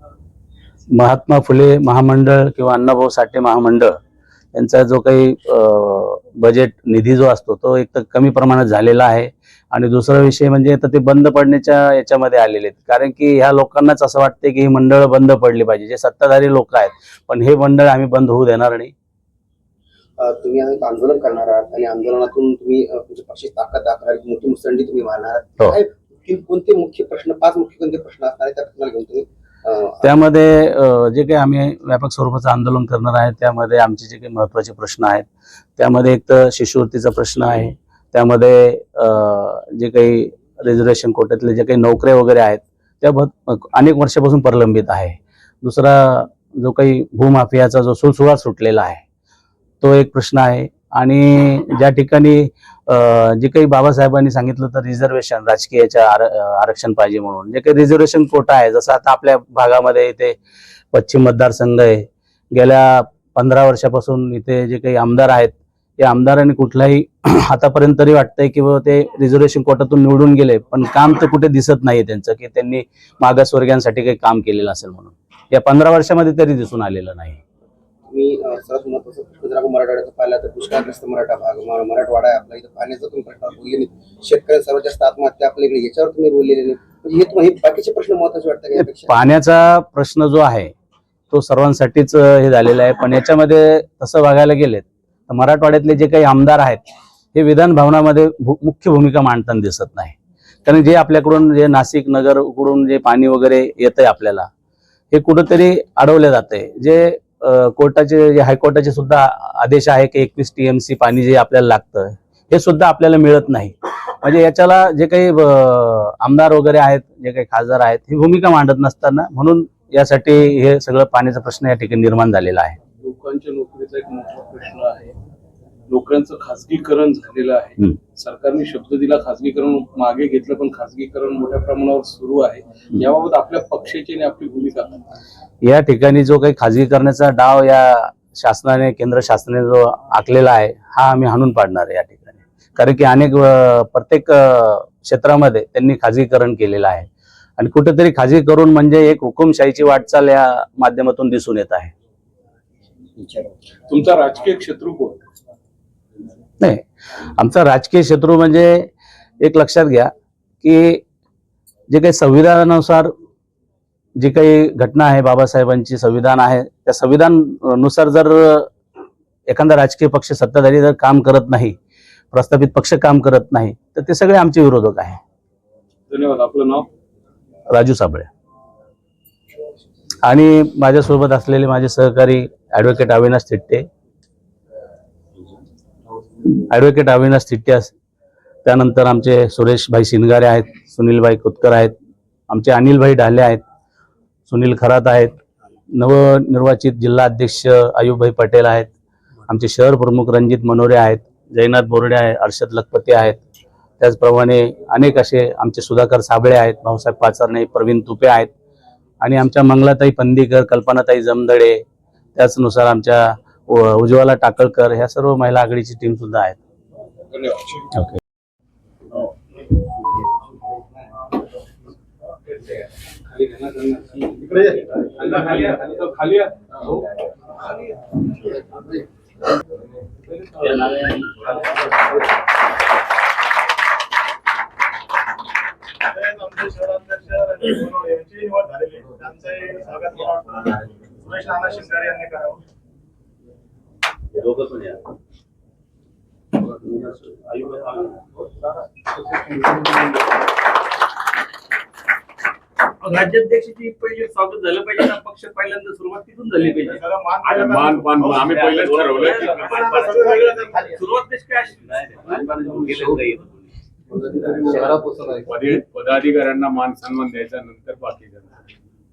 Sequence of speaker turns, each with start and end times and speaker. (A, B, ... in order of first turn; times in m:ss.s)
0:00.9-0:04.0 A
0:04.5-0:18.9 A
0:20.2-0:30.2 B
0:30.0-0:35.3 A
0:35.8-0:49.0 A
0:49.8-1:00.4 A
1:00.9-1:17.4 A
1:18.1-1:29.1 B
1:29.0-1:30.7 A
1:31.3-1:44.5 A
1:45.1-2:02.8 A
2:03.0-2:05.2 C
2:05.9-2:15.0 C
2:15.6-2:27.1 A
2:27.6-2:31.9 A
2:33.2-2:33.5 B
2:33.9-2:35.2 C
2:36.6-2:38.9 A
2:39.4-2:41.0 A
2:41.9-2:43.1 A
2:44.2-2:48.7 A
2:49.5-2:51.8 A
2:52.3-2:55.2 A
2:56.1-2:56.9 C
2:57.7-2:58.3 A
3:00.2-3:03.9 A
3:06.5-3:07.9 A
3:08.6-3:11.9 A
3:12.5-3:13.6 A
3:14.5-3:15.4 A
3:15.9-3:18.9 A
3:19.5-3:23.4 A
3:24.0-3:28.5 A
3:29.2-3:31.8 A
3:32.4-3:36.6 A
3:37.3-3:37.9 C
3:43.4-3:44.2 C
3:45.2-3:47.0 C
4:04.3-4:05.0 A
4:13.0-4:17.0 D
4:17.6-4:19.6 E
4:18.5-4:23.2 D
4:22.3-4:23.4 A
4:24.2-4:25.2 C
4:25.4-4:28.5 E